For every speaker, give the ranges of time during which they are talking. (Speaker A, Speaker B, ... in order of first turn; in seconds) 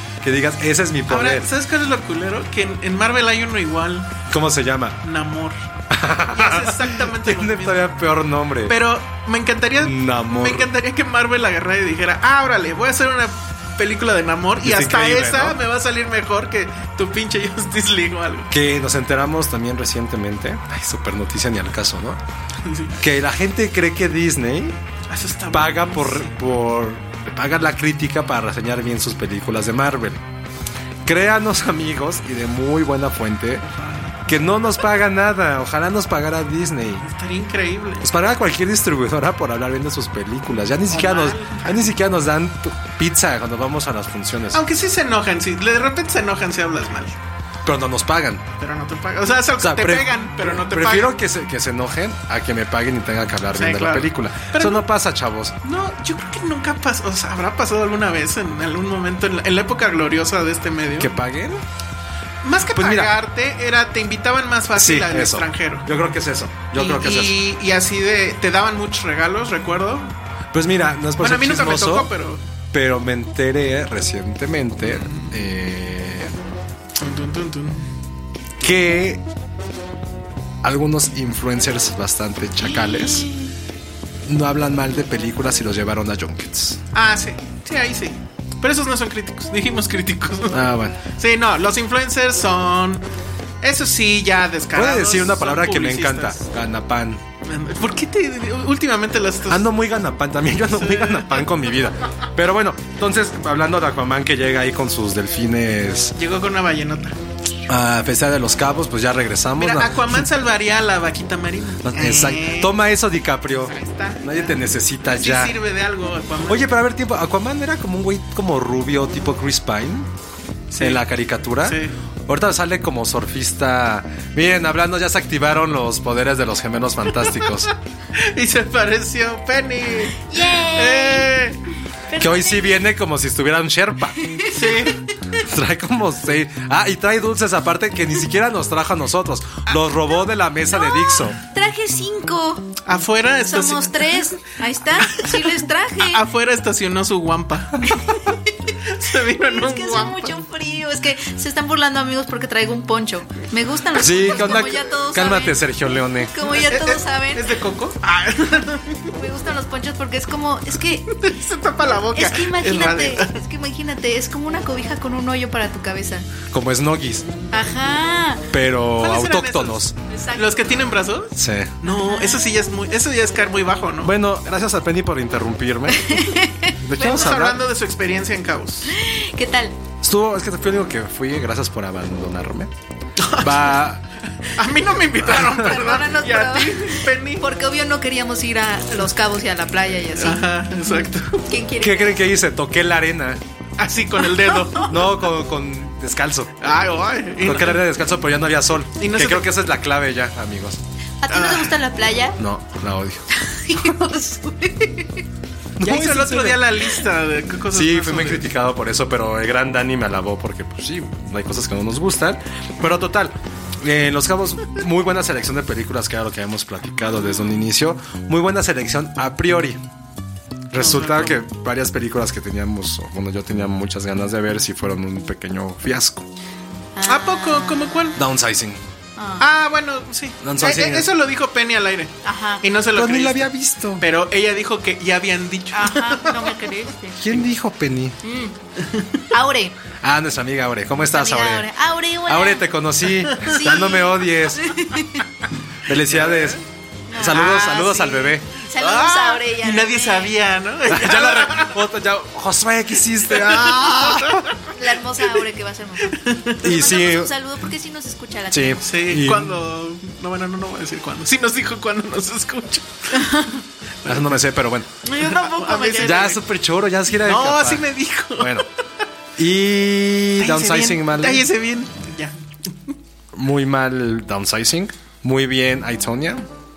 Speaker A: 0.2-1.5, 4.3-5.0, 5.9-8.8, 9.8-10.7, 14.6-15.6, 18.5-22.2, 23.0-24.8, 25.5-30.2, 31.0-33.7, 34.3-37.1, 38.0-44.6, 47.6-48.4, 49.6-55.5, 61.0-61.6, 62.7-63.1, 64.7-67.4, 70.5-72.1, 72.7-76.3, 78.6-79.2, 80.6-83.3, 84.2-86.8, 90.5-91.0, 94.7-97.2, 99.5-106.2, 107.7-110.2, 111.8-115.5, 116.5-120.1, 120.8-127.7, 132.2-134.4, 135.4-141.4, 153.9-156.3, 166.5-167.2, 168.5-169.9, 171.3-171.8, 174.0-177.6, 180.0-182.7, 183.4-184.0, 185.3-185.6, 191.8-193.4, 194.8-196.6, 197.4-200.8, 202.4-203.3, 205.8-206.7, 207.7-219.8, 220.7-226.3, 228.2-228.8, 230.4-231.1, 232.9-234.1, 237.2-238.2, 240.0-241.7, 242.2-244.8, 245.8-246.6, 247.2-248.4, 250.9-254.5, 256.6-257.3, 258.5-259.6, 264.0-264.9, 266.0-268.7, 269.4-271.4, 273.3-276.5
Speaker B: 1.1-4.2, 5.0-5.5, 6.3-7.9, 8.7-18.5, 22.6-23.0, 25.1-26.3, 33.7-34.3, 37.0-38.0, 40.9-41.9, 44.5-47.2, 48.6-51.2, 53.5-54.8, 55.6-61.1, 62.4-65.9, 66.7-70.1, 71.2-72.4, 74.8-75.3, 77.0-77.8, 82.7-83.5, 86.9-93.1, 93.6-96.4, 97.4-99.7, 100.7-101.5, 106.2-107.2, 109.5-112.7, 113.6-116.7, 120.7-121.0, 121.6-122.0, 128.1-131.6, 134.5-135.0, 142.8-144.2, 145.0-145.5, 146.0-148.2, 148.8-150.3, 156.4-159.1, 161.1-163.4, 168.9-174.1, 176.9-178.9, 183.2-183.9, 184.5-187.4, 190.1-191.4, 193.8-195.2, 196.6-197.8, 199.0-199.5, 201.3-201.8, 205.8-208.4, 220.7-221.4, 227.0-228.2, 229.4-233.5, 234.0-236.7, 246.0-246.6, 247.3-247.8, 248.8-251.8, 253.3-253.8, 256.1-256.5, 258.8-263.5, 265.2-266.4, 267.1-268.6, 270.4-272.4
Speaker C: 130.0-131.3, 132.1-132.8, 134.2-135.1, 140.7-142.7, 143.4-146.2, 147.8-155.6, 156.3-157.5, 159.0-161.1, 162.1-166.3, 167.5-168.5, 170.1-170.8, 171.8-172.5, 175.9-177.2, 178.9-179.8, 185.6-190.5, 191.4-192.3, 201.2-202.3, 203.3-205.2, 226.9-228.2, 229.2-229.5, 232.2-232.6, 235.7-237.2, 238.2-238.5, 239.3-239.7, 241.1-242.7, 243.3-245.2, 247.1-250.3, 254.7-258.9, 263.1-263.6, 265.1-266.3